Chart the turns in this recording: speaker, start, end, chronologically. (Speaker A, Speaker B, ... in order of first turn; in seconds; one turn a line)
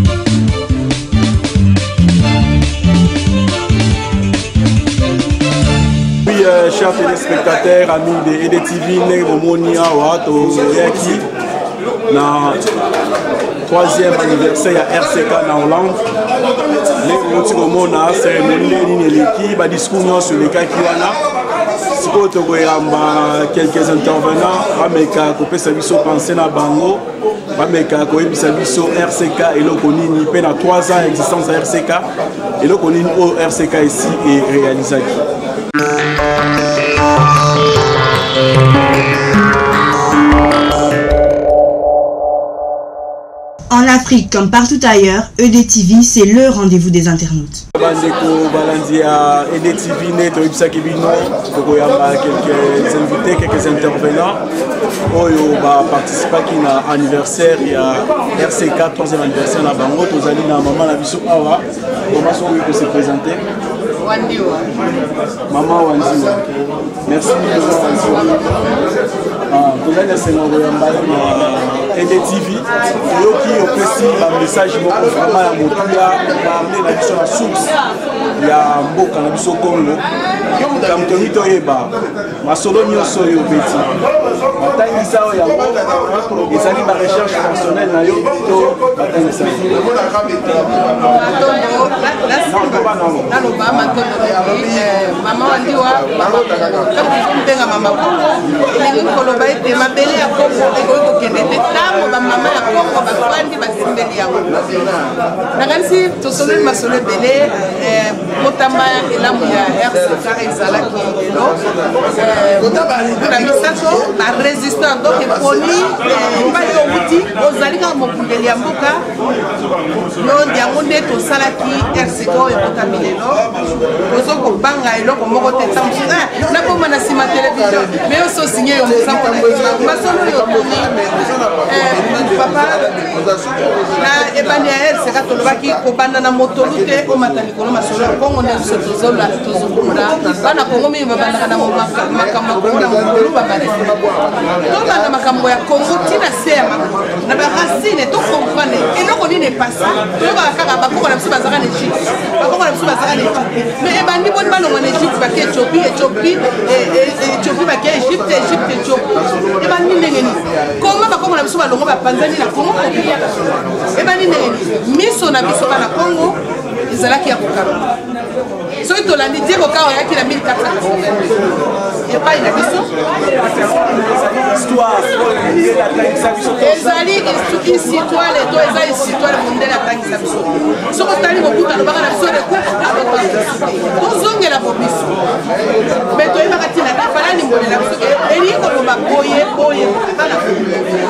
Speaker A: 6.2-11.2
Speaker A: 12.1-12.6
Speaker A: 13.7-16.0
Speaker A: 17.0-21.2
Speaker A: 21.9-32.1
Speaker A: 32.6-35.2
Speaker B: 43.7-47.6
Speaker A: 47.8-54.4
Speaker A: 55.1-63.4
Speaker C: 64.0-64.7
Speaker A: 65.5-66.4
Speaker A: 67.0-68.6
Speaker A: 69.5-77.7
Speaker A: 78.4-80.0
Speaker A: 80.8-83.9
Speaker A: 84.6-85.8
Speaker A: 86.5-89.8
Speaker C: 90.8-104.5
Speaker A: 92.5-94.0
Speaker C: 105.5-111.6
Speaker C: 112.1-119.0
Speaker C: 120.2-123.4
Speaker C: 124.0-133.0
Speaker C: 134.0-143.9
Speaker C: 144.6-163.2
Speaker C: 163.9-167.9
Speaker C: 168.8-171.5
Speaker C: 172.1-172.9
Speaker A: 173.1-177.1
Speaker C: 176.6-185.1
Speaker C: 186.1-190.7